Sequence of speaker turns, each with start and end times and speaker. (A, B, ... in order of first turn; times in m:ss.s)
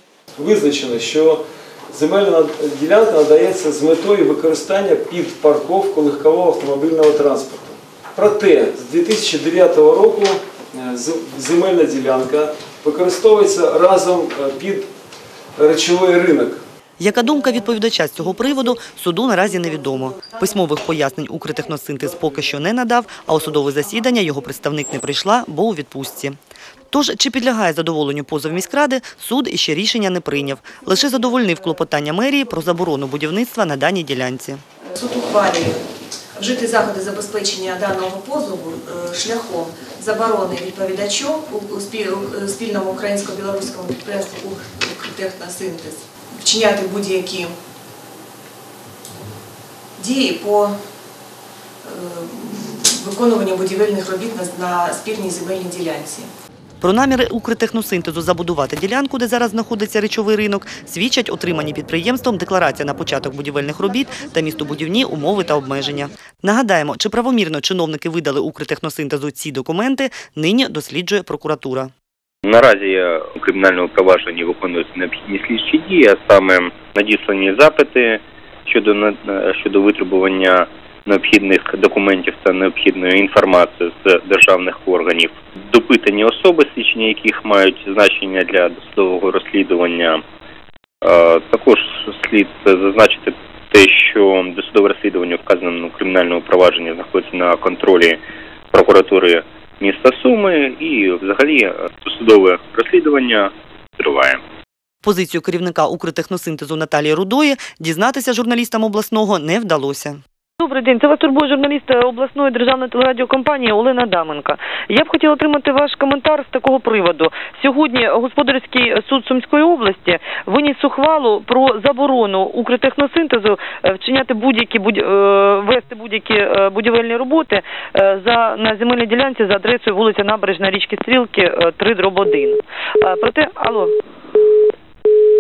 0:00.4-0:14.9 A
0:15.6-0:16.6 A
0:17.0-0:26.4 B
0:26.9-0:34.6 B
0:35.0-0:35.8 C
0:36.4-0:47.5 C
0:50.0-0:50.7 C
0:51.8-0:56.3 C
0:56.8-1:11.9 B
1:12.4-1:30.2 D
1:31.0-1:38.2 D
1:38.7-1:44.4 D
1:45.0-1:50.2 B
1:50.6-2:13.9 E